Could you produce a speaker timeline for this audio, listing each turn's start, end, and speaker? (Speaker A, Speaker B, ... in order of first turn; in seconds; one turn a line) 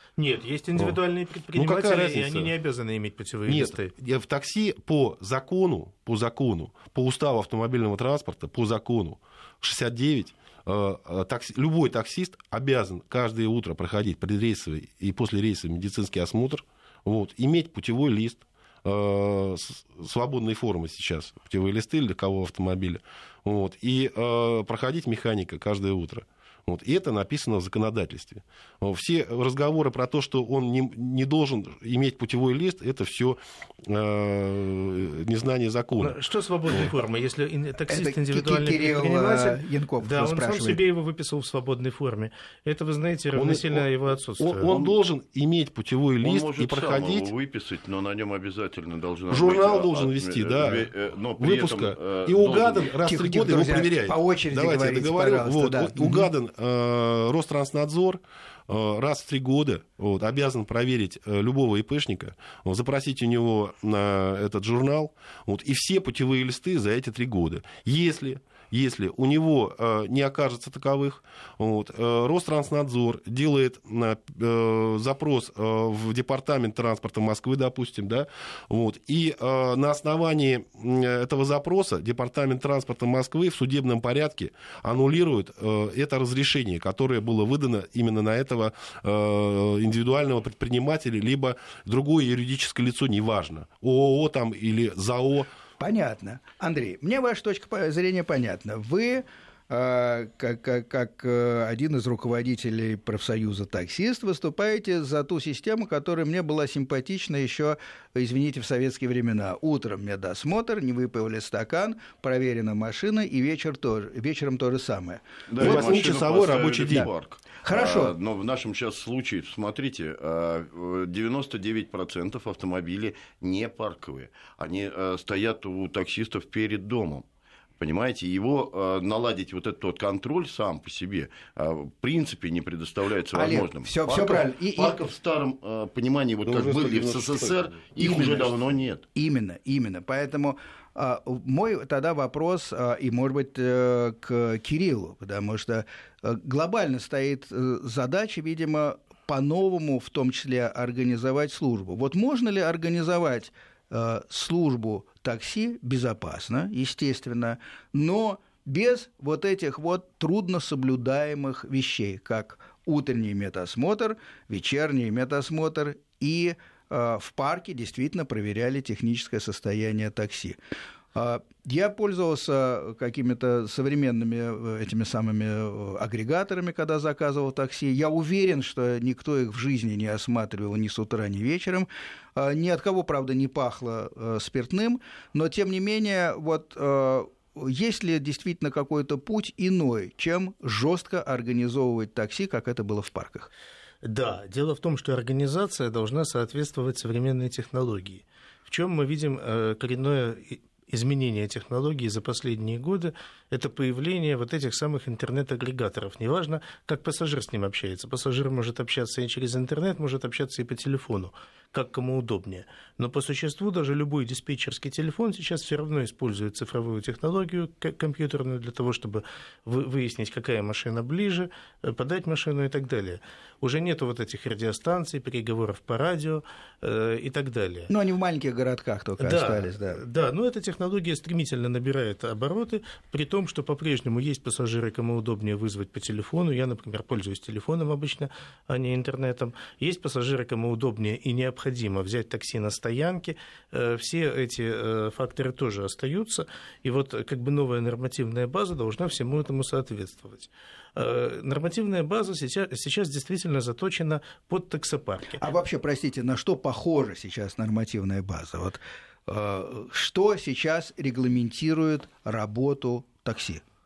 Speaker A: 0.2-3.9
Speaker B: 1.5-2.5
Speaker B: 3.5-36.2
Speaker A: 36.0-44.7
Speaker C: 37.9-40.8
Speaker B: 43.3-43.9
Speaker B: 44.4-47.3
Speaker D: 46.2-52.9
Speaker B: 49.3-95.5
Speaker C: 53.0-56.3
Speaker C: 95.8-116.0
Speaker D: 115.5-127.3
Speaker B: 115.6-117.1
Speaker C: 117.6-118.2
Speaker D: 127.8-139.1
Speaker C: 133.3-135.0
Speaker B: 136.4-137.8
Speaker C: 138.0-138.5
Speaker C: 139.2-170.6
Speaker C: 171.2-193.5
Speaker A: 194.0-227.9
Speaker C: 227.9-230.0
Speaker A: 229.2-255.4
Speaker C: 255.4-263.6